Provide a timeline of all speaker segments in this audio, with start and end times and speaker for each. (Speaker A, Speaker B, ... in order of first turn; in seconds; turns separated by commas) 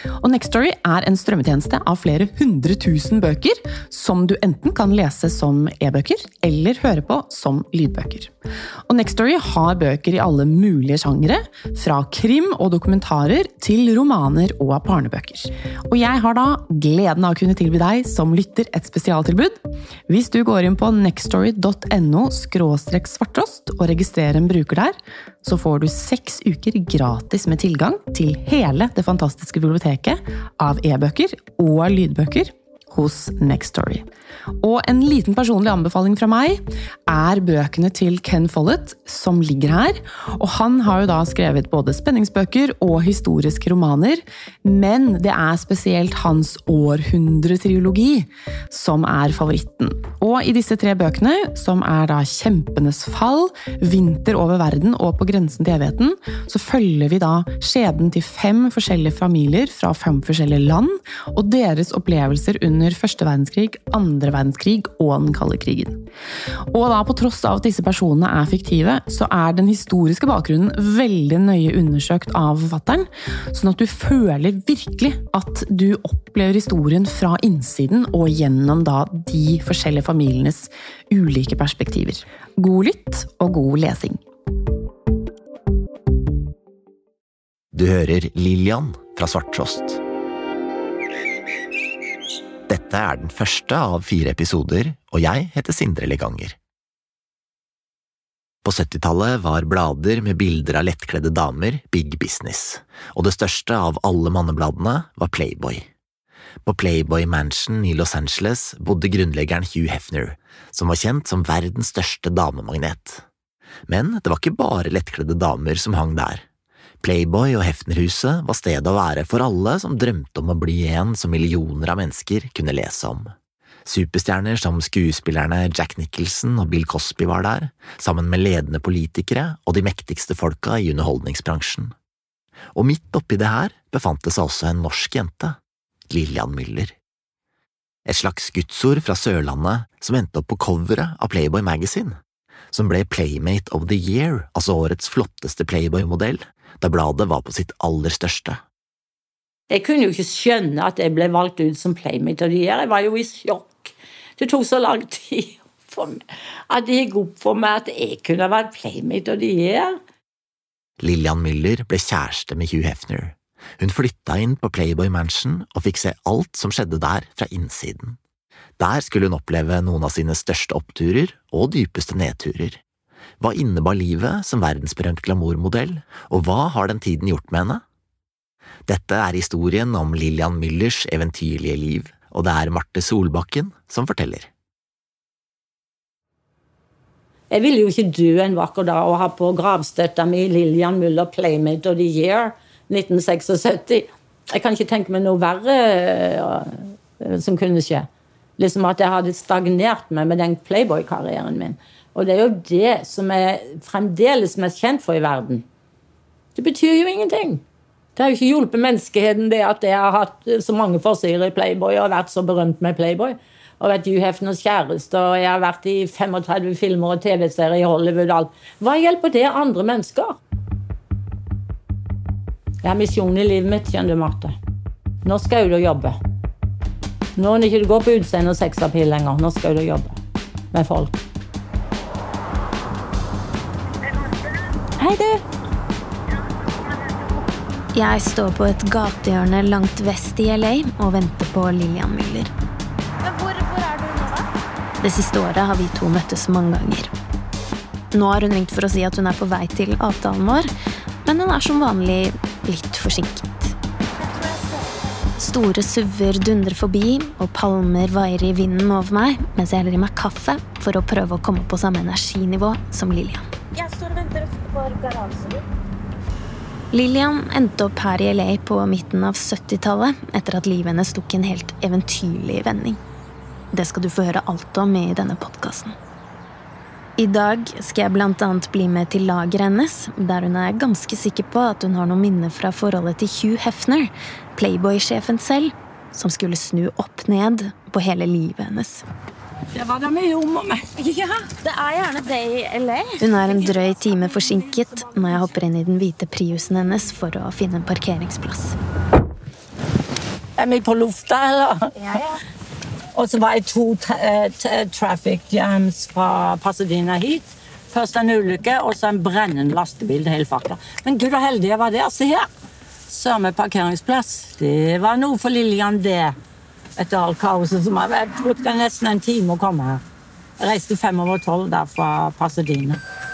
Speaker A: 0.2-8.3, Speaker A: 8.9-34.0, Speaker A: 34.6-66.0, Speaker A: 66.7-84.2, Speaker B: 87.7-90.0, Speaker B: 92.7-96.6, Speaker B: 98.6-105.9, Speaker B: 106.6-113.2, Speaker B: 113.9-116.5, Speaker B: 117.0-123.3, Speaker B: 123.8-131.9, Speaker B: 132.7-135.6, Speaker B: 136.1-136.9, Speaker B: 138.1-142.2, Speaker B: 142.7-148.6, Speaker C: 149.7-160.0, Speaker B: 161.0-168.2, Speaker B: 168.8-172.8, Speaker B: 173.4-177.8, Speaker B: 178.9-184.5, Speaker C: 187.5-205.6, Speaker C: 206.6-207.6, Speaker C: 208.2-220.4, Speaker C: 222.8-224.5, Speaker C: 225.2-226.2, Speaker C: 227.4-230.2, Speaker C: 230.7-231.2, Speaker D: 235.0-235.4, Speaker E: 237.9-242.5, Speaker D: 243.2-244.5, Speaker E: 245.0-247.1, Speaker E: 248.1-250.7, Speaker E: 251.2-253.8, Speaker D: 254.2-254.9, Speaker E: 255.4-263.4, Speaker D: 263.7-265.6, Speaker E: 266.9-273.0, Speaker E: 273.7-275.9, Speaker E: 277.2-289.0, Speaker C: 289.7-291.5, Speaker D: 291.6-293.4, Speaker E: 293.2-298.8, Speaker C: 293.9-294.6, Speaker C: 300.6-302.3, Speaker C: 303.1-312.5, Speaker C: 313.1-316.3, Speaker C: 317.0-320.0, Speaker C: 320.6-323.0